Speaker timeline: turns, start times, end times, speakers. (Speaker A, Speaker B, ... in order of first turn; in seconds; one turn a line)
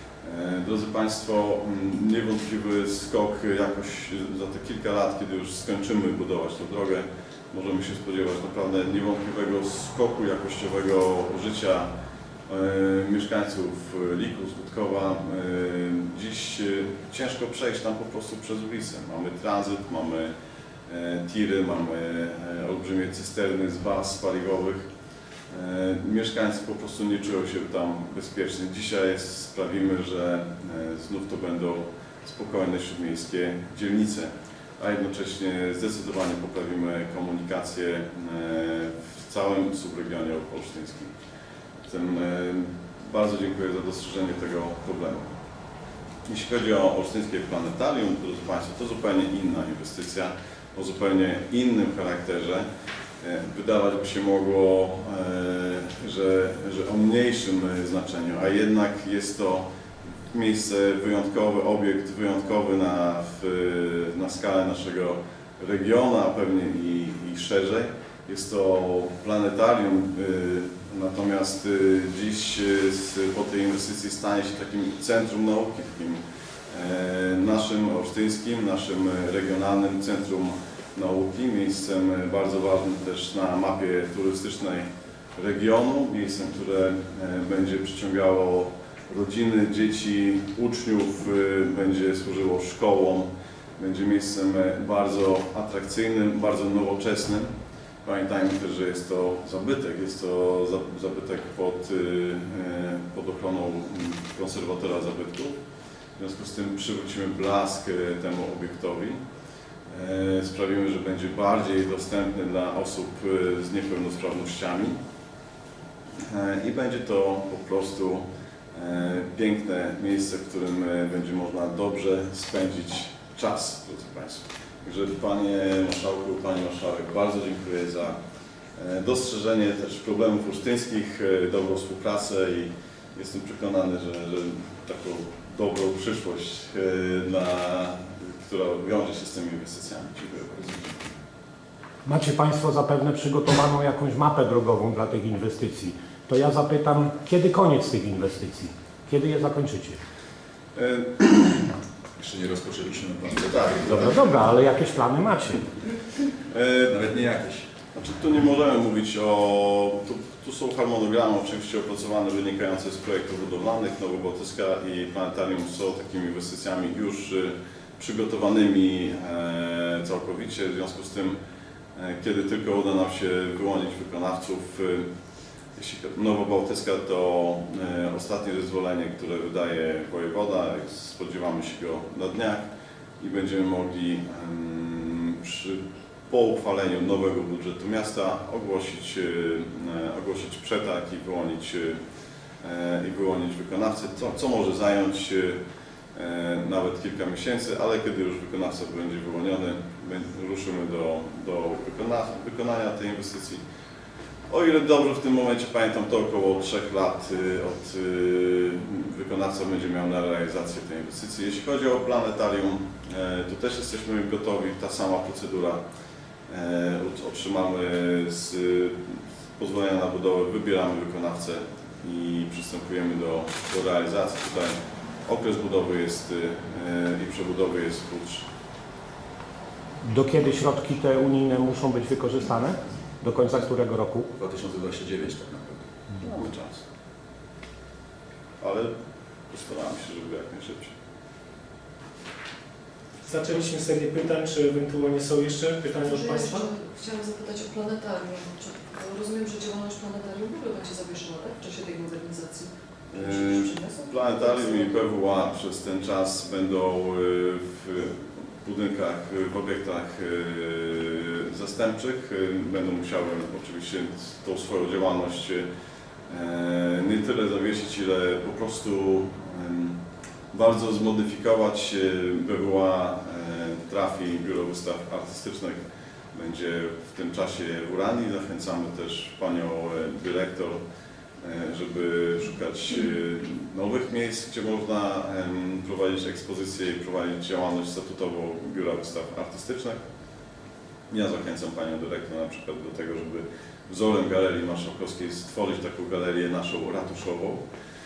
Speaker A: 0.2-11.9
Speaker A: 12.5-20.3
Speaker A: 20.9-24.9
Speaker A: 25.5-41.1
Speaker A: 41.9-45.2
Speaker A: 46.3-52.6
Speaker A: 53.2-59.6
Speaker A: 60.3-97.5
Speaker A: 98.0-105.6
Speaker A: 106.2-109.2
Speaker A: 109.9-115.0
Speaker A: 116.2-128.2
Speaker A: 128.8-141.1
Speaker B: 142.0-150.0
Speaker A: 150.8-151.7
Speaker C: 152.2-154.2
Speaker B: 153.8-155.7
Speaker A: 156.5-157.0
Speaker C: 156.9-157.7
Speaker A: 157.9-171.4
Speaker A: 171.9-175.0
Speaker A: 175.8-182.7
Speaker A: 183.2-192.0
Speaker A: 192.6-195.6
Speaker A: 196.1-203.6
Speaker A: 204.5-215.8
Speaker A: 216.5-224.7
Speaker A: 225.2-228.4
Speaker B: 230.0-234.3
Speaker C: 234.4-235.9
Speaker A: 236.2-236.8
Speaker A: 238.6-238.9
Speaker A: 239.5-240.9
Speaker D: 243.2-246.7
Speaker E: 246.0-255.1
Speaker A: 253.1-265.6
Speaker A: 266.3-270.0
Speaker A: 270.5-280.8
Speaker A: 281.4-290.0
Speaker A: 291.1-297.6